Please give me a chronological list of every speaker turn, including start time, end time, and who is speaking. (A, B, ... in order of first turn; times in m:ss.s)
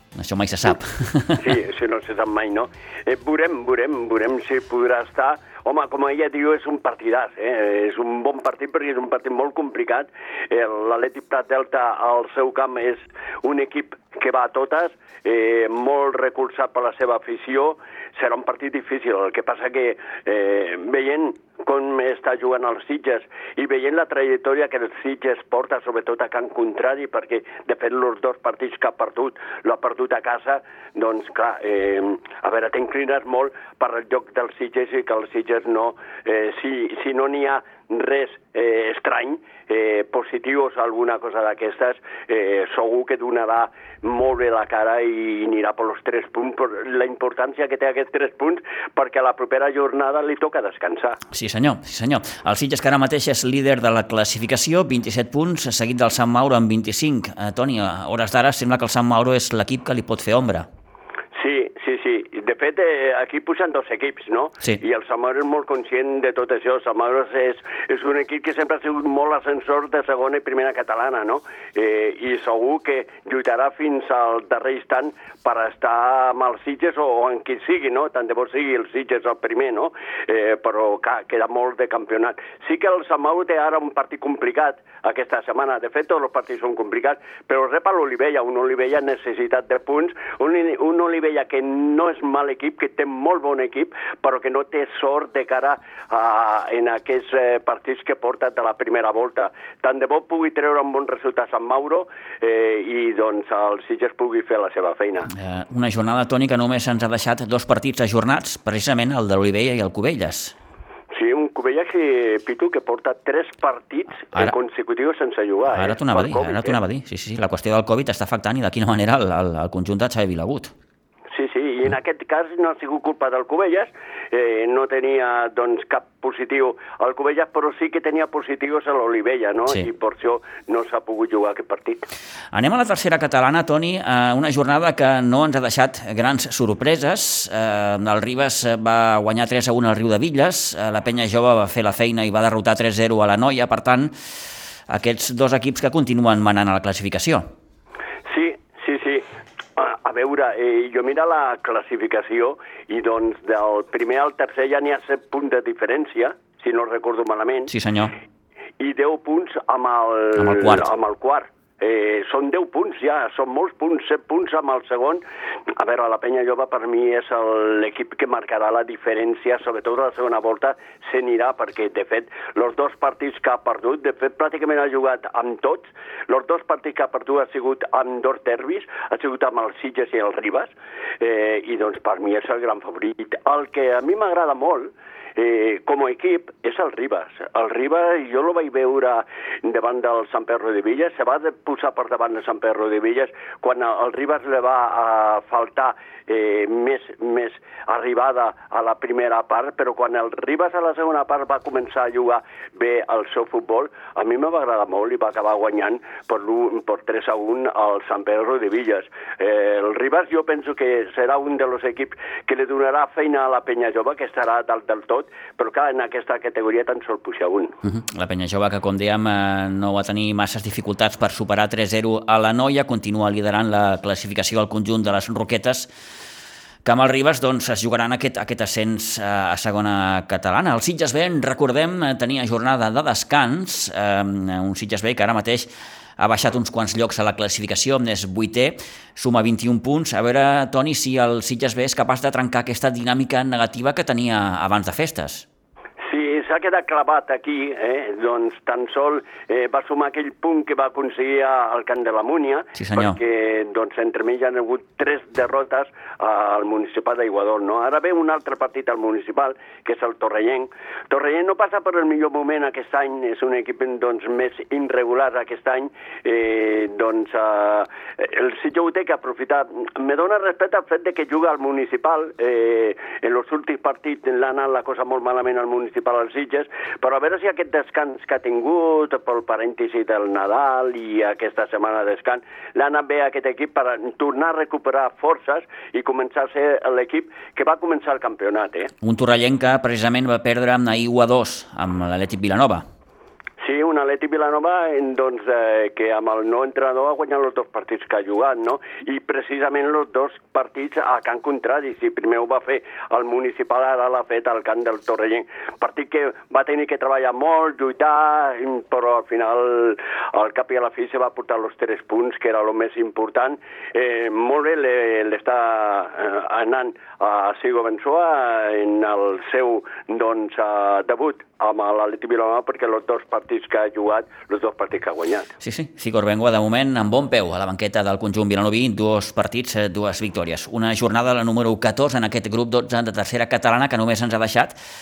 0:00.2-0:01.6 A
0:01.4-0:51.2 B
0:51.3-1:00.7 A
1:01.4-1:45.3 B
1:45.3-1:50.6 A
1:51.1-1:56.8 B
1:55.7-2:00.7 A
2:01.3-2:12.1 B
2:12.5-2:24.1 A
2:24.9-2:27.5 A
2:28.3-2:29.3 B
2:29.8-2:37.7 B
2:37.7-2:38.1 A
2:38.8-2:45.2 B
2:40.4-2:40.9 A
2:45.8-3:37.8 B
3:37.9-3:45.9 A
3:46.8-4:05.5 A
4:06.0-4:48.9 B
4:12.8-4:13.2 A
4:49.0-4:52.9 A
4:53.6-5:25.5 B
5:25.6-5:34.8 A